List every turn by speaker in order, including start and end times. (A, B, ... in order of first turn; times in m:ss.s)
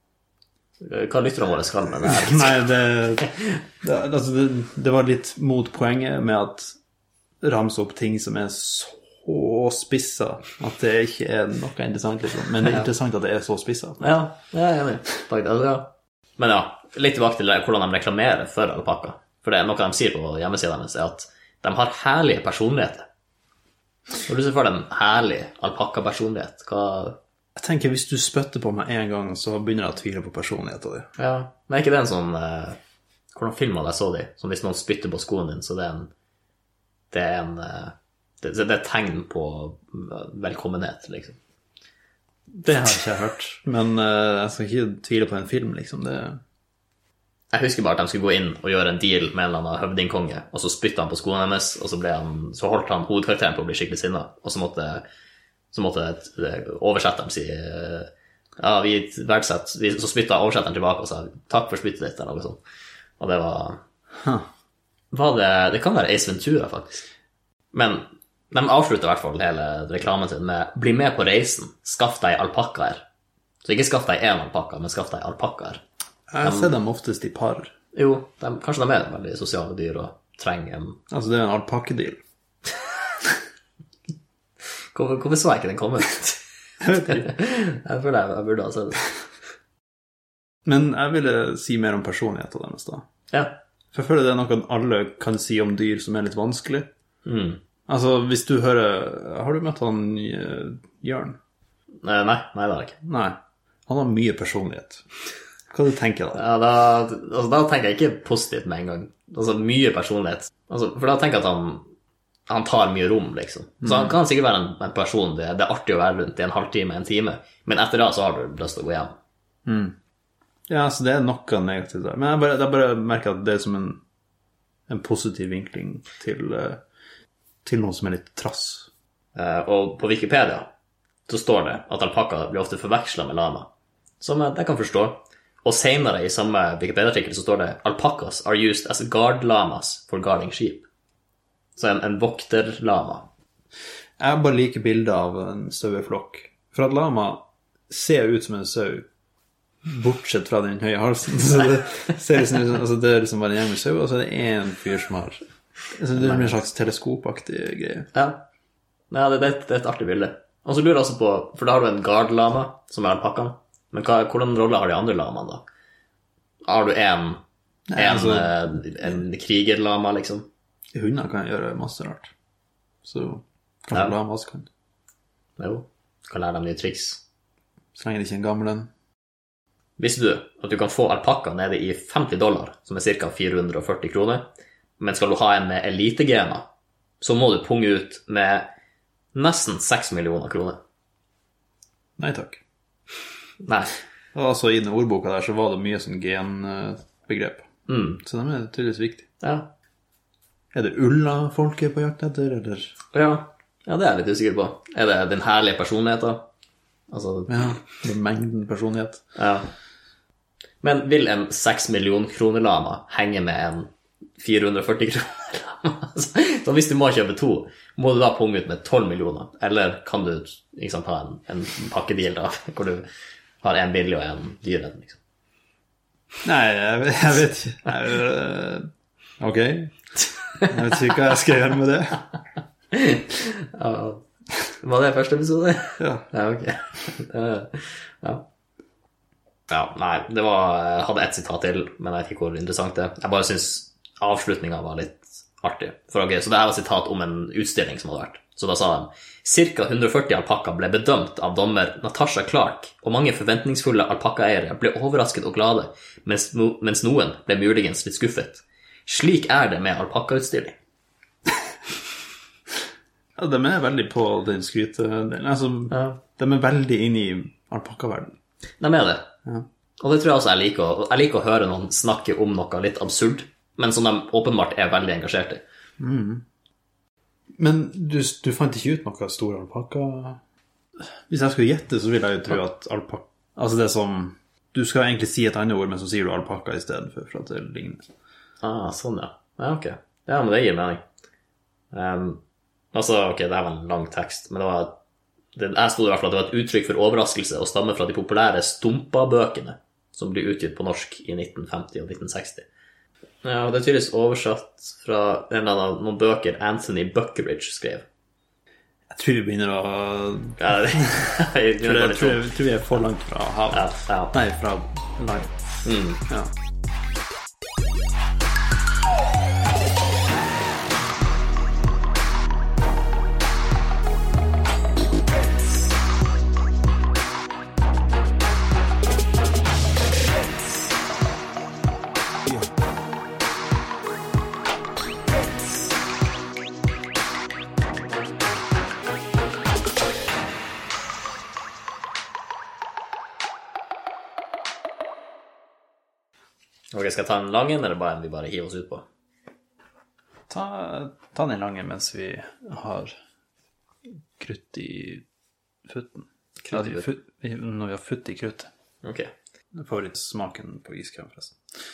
0:00.8-0:03.3 A
0:02.0-0:06.8 B
0:07.4-0:14.2 B
0:14.0-0:23.0 A
0:24.2-0:27.2 A
0:27.6-0:31.1 B
0:31.2-0:32.8 A
0:33.3-0:36.1 A
0:37.1-0:41.4 A
0:42.6-0:46.4 B
0:47.5-0:55.0 A
0:55.7-1:02.6 A
1:03.2-1:03.8 A
1:05.1-1:07.0 A
1:07.7-1:13.0 A
1:13.6-1:15.8 A
1:16.3-1:17.7 B
1:16.4-1:16.7 A
1:17.9-1:21.0 A
1:21.1-1:22.2 B
1:24.9-1:26.4 A
1:26.8-1:27.2 B
1:26.9-1:29.1 A
1:30.7-1:33.1 B
1:33.3-1:33.6 A
1:33.9-1:36.9 B
1:37.2-1:37.6 A
1:37.9-1:41.4 B
1:42.0-1:43.0 A
1:43.0-1:45.0 B
1:45.7-1:46.4 B
1:46.3-1:51.9 A
1:52.5-1:59.1 A
1:53.8-1:54.2 B
1:59.7-2:00.0 B
2:00.7-2:04.0 B
2:04.9-2:06.8 B
2:07.6-2:08.9 B
2:09.4-2:10.7 A
2:11.3-2:13.7 A
2:14.2-2:20.9 A
2:21.8-2:23.3 A
2:24.2-2:29.1 B
2:29.9-2:38.1 B
2:36.2-2:36.5 A
2:38.1-2:38.4 A
2:39.1-2:45.6 A
2:46.6-2:47.4 A
2:47.9-2:48.6 B
2:48.0-2:50.5 A
2:51.0-2:52.3 B
2:53.0-2:54.7 B
2:55.6-2:57.2 A
2:58.0-2:58.9 B
3:00.0-3:04.5 A
3:05.0-3:06.6 A
3:07.2-3:08.7 A
3:09.3-3:10.8 A
3:12.2-3:12.6 B
3:13.6-3:14.0 A
3:14.3-3:17.7 B
3:17.9-3:18.2 A
3:18.2-3:19.3 B
3:19.4-3:19.7 A
3:20.7-3:22.9 B
3:23.1-3:26.5 A
3:27.1-3:27.8 A
3:27.5-3:29.3 B
3:29.4-3:29.7 A
3:30.8-3:43.0 A
3:43.6-3:45.2 A
3:46.4-3:48.9 B
3:49.4-3:50.0 B
3:50.6-3:52.3 B
3:52.9-3:58.4 A
3:56.0-3:56.3 B
3:59.7-4:20.8 A
4:23.4-4:28.4 B
4:25.9-4:26.2 A
4:28.8-4:29.3 A
4:30.0-4:35.6 A
4:36.0-4:36.4 B
4:37.6-4:40.4 B
4:41.3-4:48.1 B
4:48.6-4:51.0 A
4:51.9-4:52.4 A
4:52.9-4:55.0 A
4:55.6-5:02.7 A
5:03.4-5:08.1 A
5:09.1-5:11.2 B
5:10.6-5:12.5 A
5:11.8-5:15.5 B
5:13.7-5:14.3 A
5:15.8-5:16.2 A
5:46.9-5:49.0 A
5:50.5-5:53.1 B
5:54.4-5:55.2 B
5:55.9-5:58.7 B
5:56.6-5:57.1 A
5:59.0-5:59.3 A
5:59.8-6:01.6 B